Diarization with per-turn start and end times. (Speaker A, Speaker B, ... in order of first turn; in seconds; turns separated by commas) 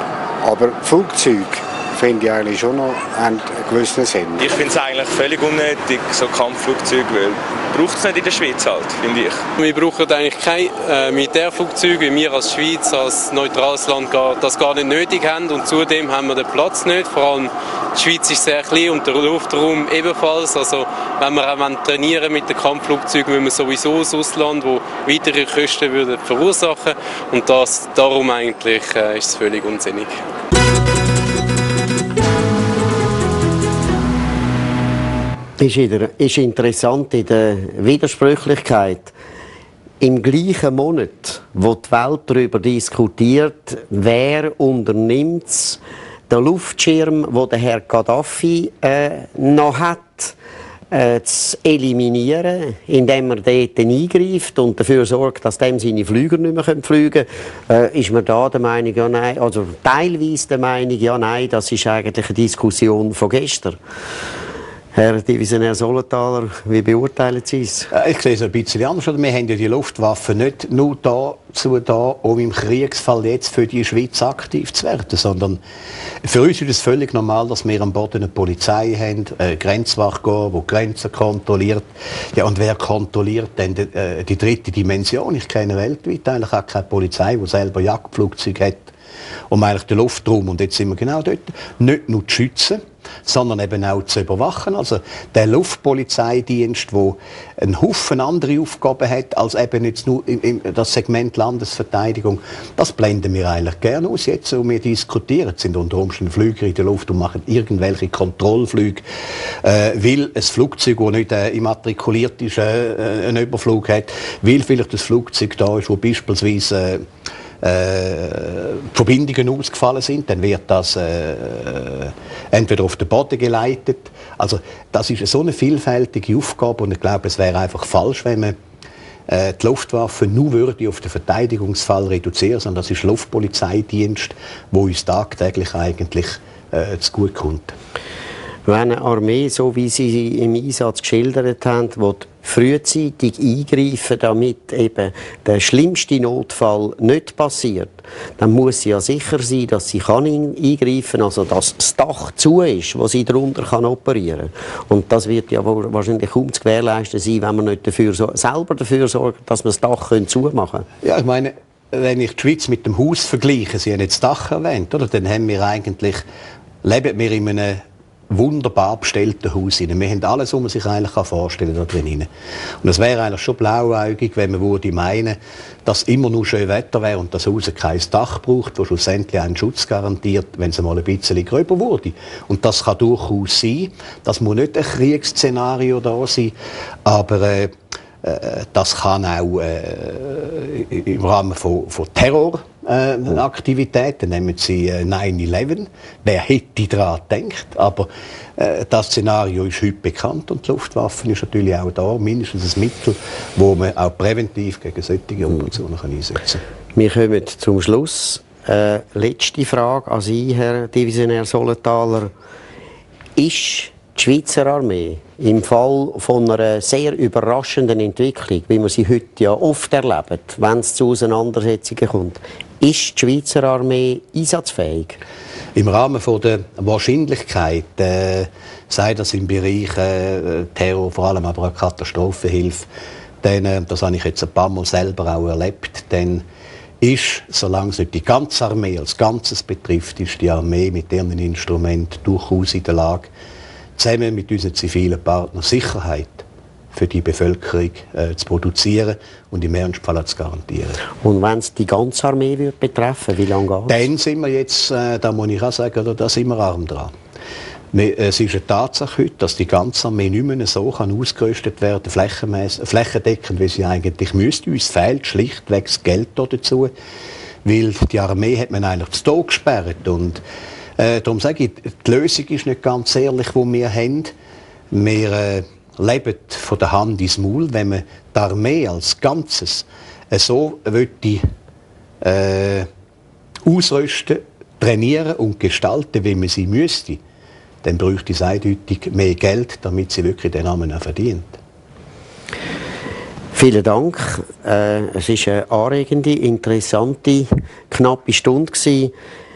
Speaker A: 0.5-4.3, Speaker B: 4.4-9.4, Speaker C: 9.6-30.1, Speaker D: 35.6-39.1, Speaker D: 40.0-45.8, Speaker D: 46.3-50.4, Speaker D: 50.9-63.8, Speaker D: 64.9-67.9, Speaker E: 67.9-75.6, Speaker E: 76.2-88.9, Speaker E: 89.5-109.0, Speaker E: 109.6-117.0, Speaker E: 117.6-128.6, Speaker E: 129.3-137.7, Speaker D: 138.7-160.9, Speaker E: 161.0-166.2, Speaker E: 166.8-172.3, Speaker E: 172.8-186.5, Speaker E: 187.1-206.6, Speaker D: 207.0-212.3, Speaker D: 213.4-225.2, Speaker E: 225.8-232.9, Speaker E: 233.4-236.4, Speaker E: 237.0-243.3, Speaker E: 244.0-251.0, Speaker D: 251.2-254.1, Speaker E: 253.9-257.1, Speaker E: 257.9-266.9, Speaker E: 267.6-270.4, Speaker E: 271.0-274.3, Speaker E: 274.9-281.4, Speaker E: 282.2-282.9, Speaker E: 283.7-287.2, Speaker E: 287.8-291.6, Speaker D: 293.5-299.1